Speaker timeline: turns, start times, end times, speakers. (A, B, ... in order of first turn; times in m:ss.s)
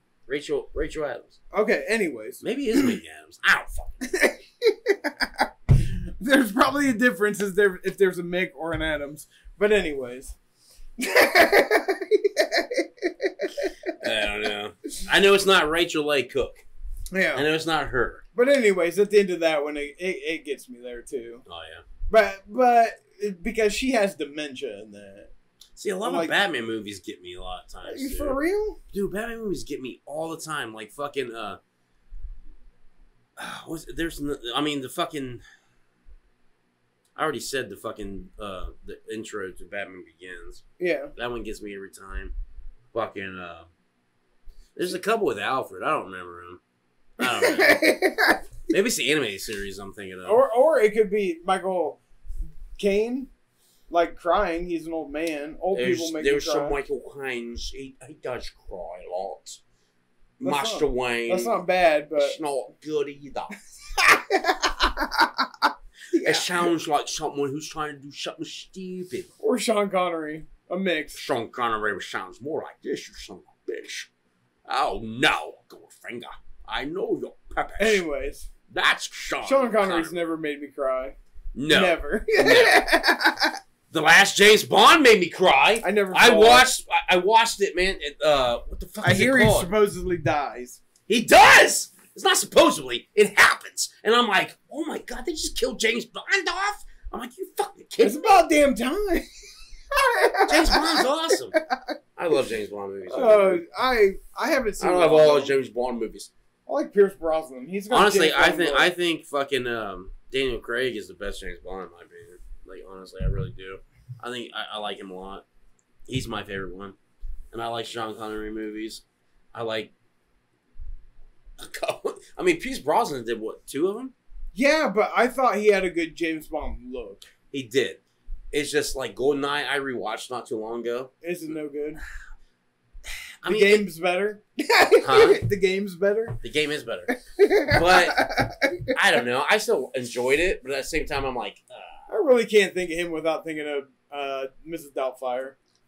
0:00.3-0:01.4 A
0:01.5-0:03.0 B
0:02.4-0:04.1 A
0:04.1-0:05.3 B
0:06.2-0:10.4 B
0:11.0-0:13.5 B
0:14.0-0:16.6 A
0:17.1-0:17.5 B
0:17.3-0:18.2 A
0:18.4-0:21.4 B
0:21.5-0:21.8 A
0:22.1-0:25.3 B
0:25.8-0:28.4 A
0:26.0-0:26.3 B
0:27.8-0:28.8 B
0:28.9-0:31.6 A
0:33.4-0:35.4 A
0:37.2-0:40.6 A
0:40.8-0:41.1 B
0:41.2-0:42.3 A
0:42.9-0:43.7 A
0:44.8-0:46.6 A
0:47.2-0:48.0 A
0:47.2-0:48.4 B
0:48.7-0:50.4 A
0:50.2-0:52.0 B
0:52.8-0:53.3 B
0:53.9-0:56.8 B
0:55.7-0:59.6 A
1:00.4-1:02.4 B
1:00.4-1:01.6 A
1:02.2-1:03.6 A
1:04.0-1:05.5 B
1:06.1-1:06.7 B
1:06.2-1:09.3 A
1:09.4-1:11.2 B
1:11.1-1:14.1 A
1:14.7-1:18.0 A
1:17.8-1:18.5 B
1:18.7-1:20.2 A
1:19.4-1:21.2 B
1:21.6-1:22.9 A
1:21.7-1:23.6 B
1:23.9-1:29.7 A
1:25.8-1:26.7 B
1:29.0-1:30.8 B
1:31.1-1:38.3 A
1:38.0-1:39.3 B
1:40.0-1:41.0 B
1:40.5-1:41.6 A
1:42.2-1:43.6 A
1:43.1-1:45.6 B
1:44.8-1:46.3 A
1:46.7-1:48.9 B
1:47.9-1:55.4 A
1:56.1-1:57.0 A
1:57.5-1:59.9 A
2:01.6-2:04.1 A
2:04.5-2:07.3 B
2:07.5-2:08.0 A
2:08.5-2:11.1 A
2:11.2-2:12.0 B
2:13.4-2:13.9 A
2:13.4-2:16.4 B
2:15.0-2:15.4 A
2:16.4-2:17.1 A
2:17.1-2:18.7 B
2:17.7-2:18.3 A
2:18.9-2:22.1 A
2:22.1-2:25.6 B